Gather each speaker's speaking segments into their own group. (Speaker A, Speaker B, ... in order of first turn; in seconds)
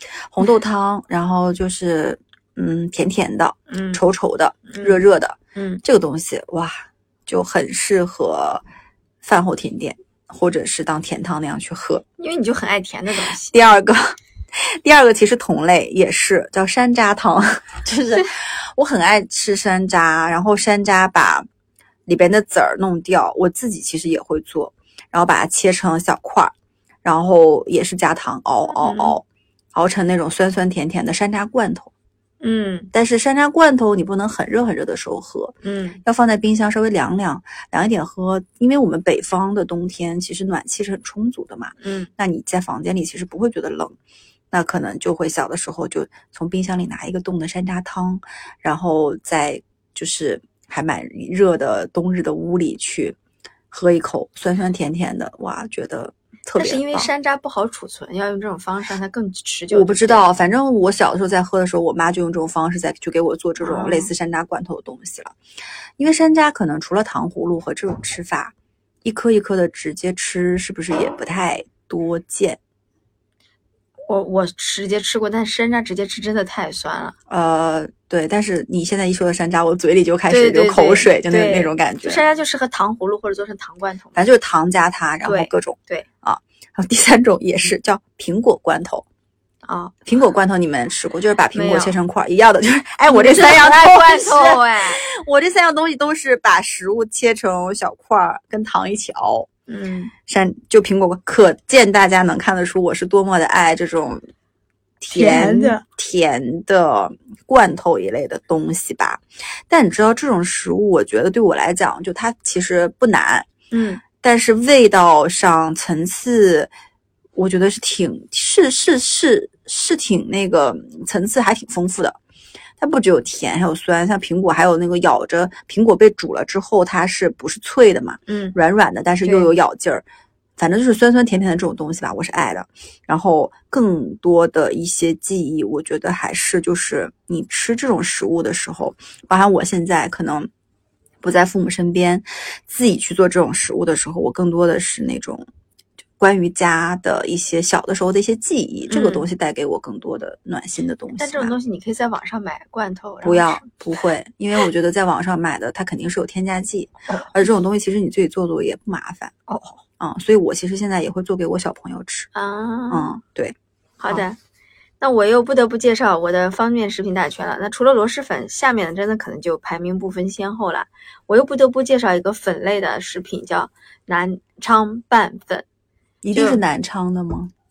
Speaker A: 0.3-8.6, 9.2-12.0, 13.3-21.4, 22.1-26.5, 27.0-31.9, 32.9-44.0, 44.5-53.1, 53.7-57.1, 59.7-65.3, 66.0-72.6, 77.3-82.2, 84.1-89.0, 90.0-99.5, 100.3-104.2, 105.0-113.5, 114.2-116.7, 117.3-122.2, 122.8-130.0, 130.6-140.5, 141.2-145.4, 146.2-151.6, 153.2-159.3, 160.0-162.3, 162.9-163.6, 176.2-177.5
Speaker B: 3.7-4.0, 4.7-5.0, 5.5-5.8, 12.2-13.5, 28.8-29.1, 32.4-32.9, 35.6-36.0, 41.8-42.1, 56.6-60.2, 63.6-64.1, 74.1-77.2, 80.3-84.2, 85.2-86.0, 89.6-89.9, 91.5-92.0, 93.1-95.0, 99.7-100.1, 105.1-105.8, 113.7-114.0, 128.3-128.6, 129.2-129.5, 148.9-149.3, 151.2-153.7, 159.5-159.8, 162.3-163.1, 164.0-164.4, 165.0-175.6, 176.3-176.6